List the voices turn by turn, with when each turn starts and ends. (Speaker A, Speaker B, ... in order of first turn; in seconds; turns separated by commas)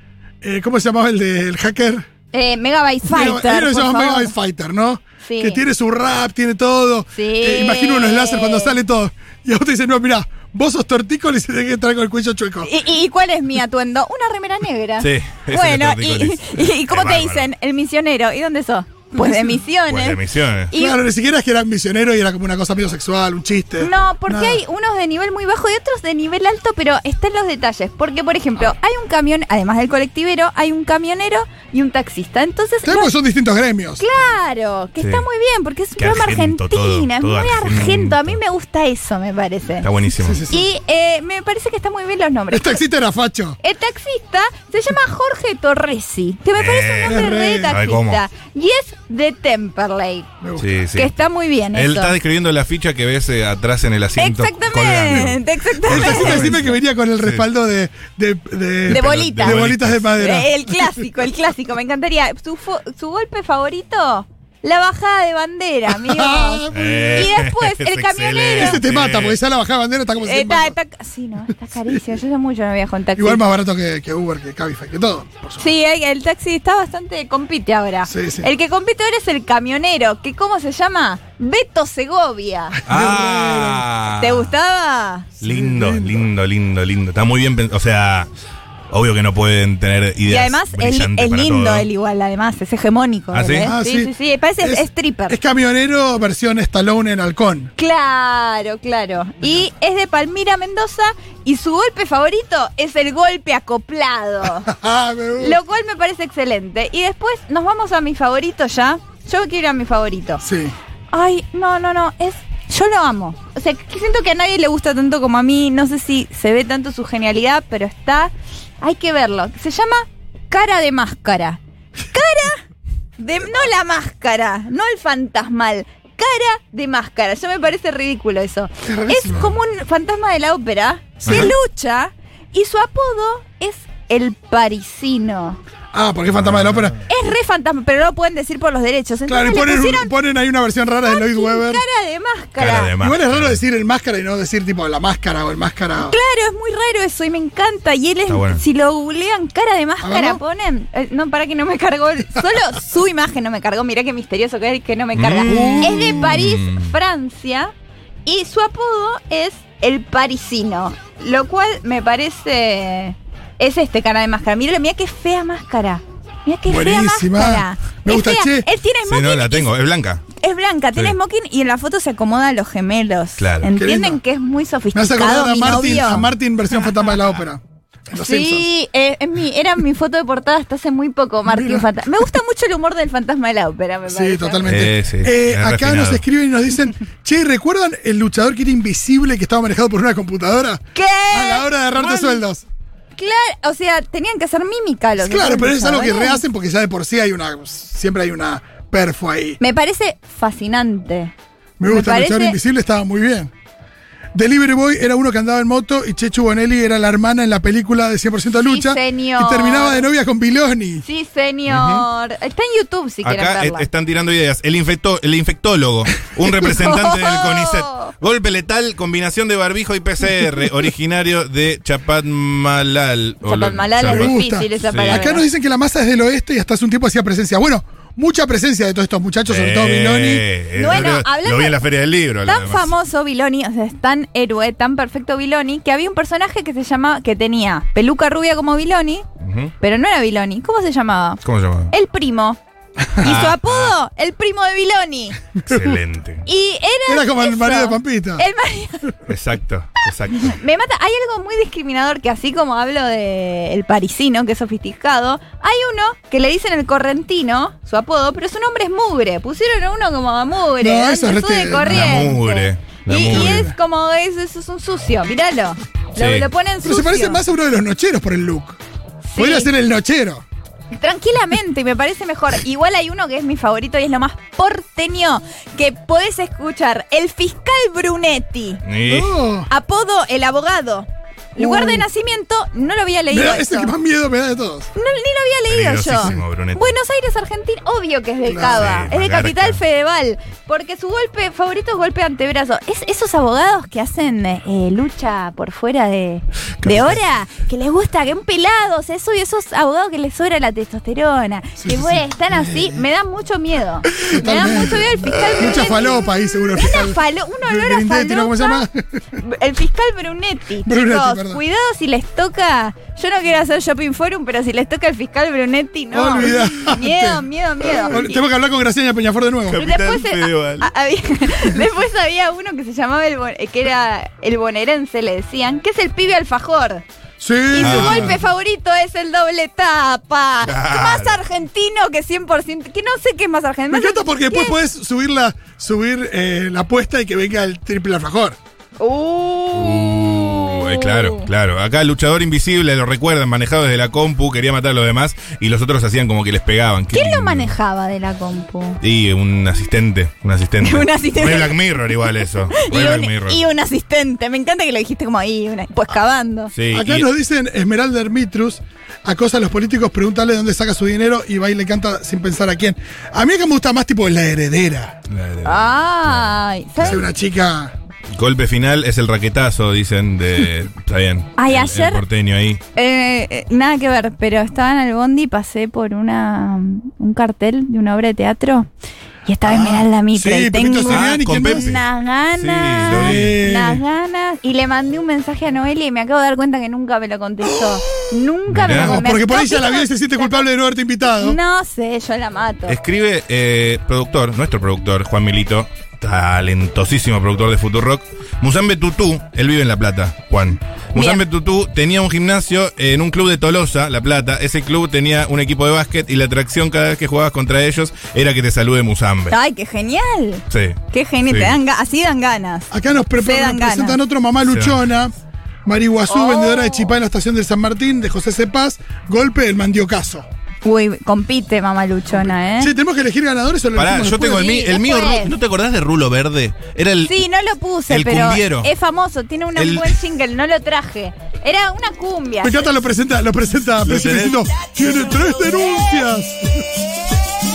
Speaker A: 0.4-2.1, Speaker B: 2.3-4.3, Speaker A: 3.1-12.7, Speaker B: 5.2-5.6, Speaker B: 7.1-8.8, Speaker B: 12.7-21.0, Speaker C: 15.0-17.5, Speaker A: 19.2-19.5, Speaker C: 19.9-20.7, Speaker A: 20.7-24.6, Speaker B: 23.8-33.1, Speaker A: 32.9-34.0, Speaker B: 34.0-39.9, Speaker C: 36.0-38.4, Speaker C: 39.8-40.4, Speaker A: 40.2-40.7, Speaker B: 40.5-42.8, Speaker A: 42.5-43.6, Speaker B: 43.6-50.3, Speaker C: 46.6-48.2, Speaker A: 47.0-47.8, Speaker A: 50.4-50.8, Speaker C: 50.6-51.1, Speaker B: 50.9-52.1, Speaker C: 51.7-57.5, Speaker B: 54.2-56.7, Speaker A: 55.8-61.0, Speaker B: 58.9-68.8, Speaker C: 58.9-60.1, Speaker A: 65.9-67.3, Speaker C: 66.7-69.4, Speaker A: 68.6-70.8, Speaker B: 70.2-73.4, Speaker A: 73.2-75.7, Speaker B: 75.6-82.8, Speaker A: 78.1-78.5, Speaker A: 82.7-83.9, Speaker C: 82.9-84.5, Speaker B: 84.2-85.3, Speaker A: 85.4-86.2, Speaker C: 85.4-88.3, Speaker C: 88.9-91.9, Speaker B: 90.2-95.4, Speaker C: 93.3-93.7, Speaker A: 93.6-97.7, Speaker B: 97.8-104.7, Speaker A: 104.7-105.6, Speaker B: 105.4-110.4, Speaker A: 110.4-110.8, Speaker B: 111.1-122.6, Speaker B: 123.2-135.6, Speaker A: 128.8-129.5, Speaker C: 131.2-131.5, Speaker A: 131.3-131.5, Speaker A: 135.9-137.0, Speaker C: 136.3-137.0, Speaker B: 137.1-140.1, Speaker A: 139.3-141.8, Speaker B: 141.1-142.9, Speaker C: 142.6-143.6, Speaker A: 143.0-146.2, Speaker B: 146.0-157.7, Speaker C: 148.3-148.6, Speaker A: 150.0-150.4, Speaker C: 155.2-156.9, Speaker A: 155.5-156.3, Speaker B: 158.3-169.7, Speaker A: 166.7-168.7, Speaker C: 169.1-170.2, Speaker B: 170.3-176.3, Speaker C: 173.4-173.7, Speaker A: 173.8-174.2, Speaker A: 174.9-178.7, Speaker B: 178.1-184.7, Speaker A: 181.5-181.9, Speaker A: 184.1-192.7, Speaker C: 184.7-186.2, Speaker B: 190.9-192.2, Speaker B: 193.2-196.4, Speaker A: 195.2-199.6, Speaker B: 199.6-201.3, Speaker A: 201.8-203.5, Speaker B: 201.9-202.6, Speaker A: 204.3-211.1, Speaker B: 208.6-210.1, Speaker B: 211.0-213.9, Speaker C: 211.7-212.1, Speaker C: 213.2-224.3, Speaker B: 216.6-218.1, Speaker B: 223.4-225.4, Speaker A: 224.0-230.5, Speaker C: 224.8-225.3, Speaker C: 229.5-232.9, Speaker B: 230.7-231.8, Speaker B: 232.4-239.2, Speaker C: 239.4-239.7, Speaker B: 239.8-242.6, Speaker C: 241.4-241.9, Speaker B: 243.2-245.4, Speaker C: 243.2-243.9, Speaker A: 245.7-246.0, Speaker C: 245.7-246.4, Speaker B: 246.5-249.1, Speaker A: 247.1-248.4, Speaker C: 249.3-250.6, Speaker B: 250.4-267.4, Speaker A: 260.8-262.3, Speaker C: 261.8-263.7, Speaker A: 263.2-263.7, Speaker C: 266.2-266.5, Speaker A: 266.8-268.8, Speaker B: 269.3-269.7, Speaker A: 269.4-270.4, Speaker B: 270.9-278.8, Speaker C: 278.9-279.4, Speaker A: 279.1-279.7, Speaker B: 279.7-283.9, Speaker A: 281.6-282.1, Speaker A: 283.3-284.9, Speaker B: 285.0-308.9, Speaker C: 285.7-286.8, Speaker A: 288.5-289.0, Speaker C: 288.7-289.8, Speaker C: 296.8-297.2, Speaker A: 301.8-303.0, Speaker A: 304.2-309.4, Speaker B: 309.4-318.4, Speaker A: 310.8-311.6, Speaker A: 316.1-319.9, Speaker C: 319.7-320.9, Speaker B: 319.8-327.0, Speaker A: 327.4-328.4, Speaker B: 327.7-334.8, Speaker C: 327.8-328.4, Speaker C: 330.6-331.4, Speaker A: 333.9-338.6, Speaker B: 339.0-341.5, Speaker C: 339.7-347.8, Speaker B: 347.1-349.0, Speaker C: 349.0-353.6, Speaker B: 350.8-351.8, Speaker B: 352.7-356.7, Speaker C: 356.8-357.3, Speaker A: 356.9-365.2, Speaker C: 365.3-367.2, Speaker B: 365.6-367.3, Speaker A: 367.0-367.9, Speaker C: 368.3-372.8, Speaker B: 371.6-372.2, Speaker B: 372.9-378.9, Speaker B: 379.5-390.7, Speaker A: 379.6-381.9, Speaker C: 381.1-382.0, Speaker C: 382.6-383.6, Speaker A: 383.1-384.0, Speaker A: 387.6-388.2, Speaker C: 388.7-389.2, Speaker A: 388.9-391.6, Speaker B: 391.2-393.0, Speaker C: 392.9-409.6, Speaker B: 401.1-401.4, Speaker B: 409.5-414.2, Speaker C: 410.7-411.8, Speaker A: 412.9-415.3, Speaker C: 414.7-415.0, Speaker A: 415.9-420.5, Speaker B: 416.3-417.1, Speaker B: 420.8-422.9, Speaker A: 422.8-424.7, Speaker C: 423.9-427.4, Speaker B: 424.4-425.5, Speaker B: 427.2-432.8, Speaker C: 428.1-428.9, Speaker C: 429.8-430.1, Speaker A: 432.6-436.9, Speaker C: 434.0-434.6